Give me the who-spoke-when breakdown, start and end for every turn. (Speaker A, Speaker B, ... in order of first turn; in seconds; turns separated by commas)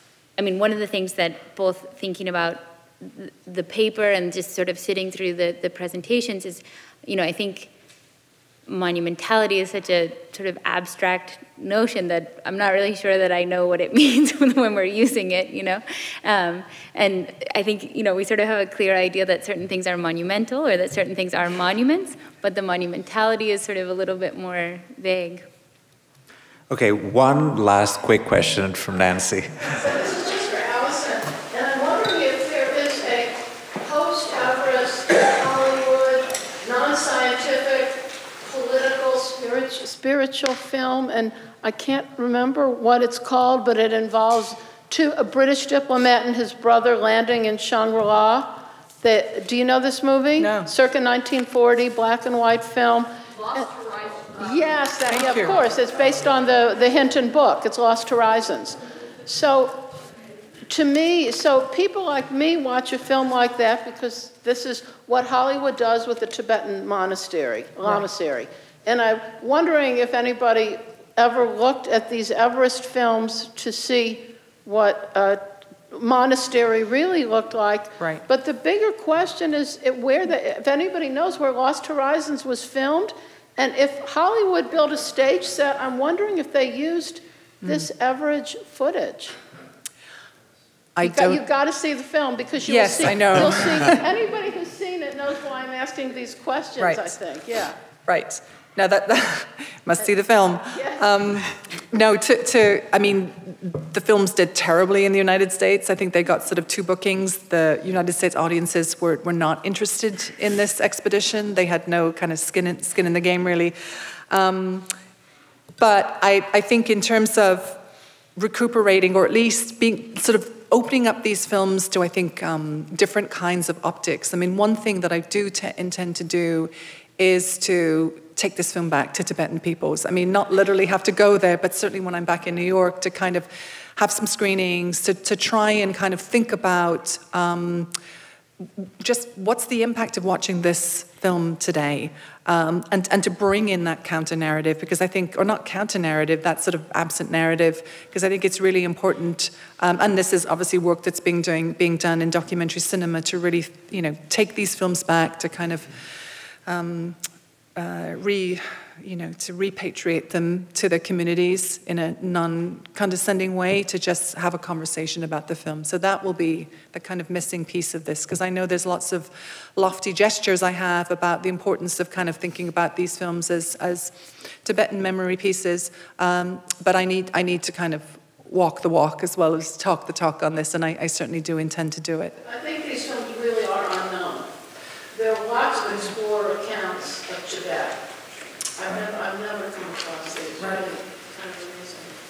Speaker A: 0.4-7.7, Speaker A: 8.7-25.5, Speaker B: 26.7-29.9, Speaker C: 29.8-60.0, Speaker D: 50.4-50.7, Speaker D: 55.1-55.6, Speaker C: 60.7-89.4, Speaker D: 78.0-78.2, Speaker D: 87.6-87.9, Speaker D: 91.0-91.4, Speaker C: 91.0-97.8, Speaker D: 92.6-94.0, Speaker D: 96.8-97.2, Speaker D: 98.0-113.7, Speaker C: 100.7-101.1, Speaker D: 114.3-114.9, Speaker D: 115.8-117.8, Speaker D: 118.4-137.9, Speaker D: 138.8-157.2, Speaker D: 157.8-182.4, Speaker C: 182.4-184.6, Speaker C: 185.1-188.0, Speaker C: 188.8-192.2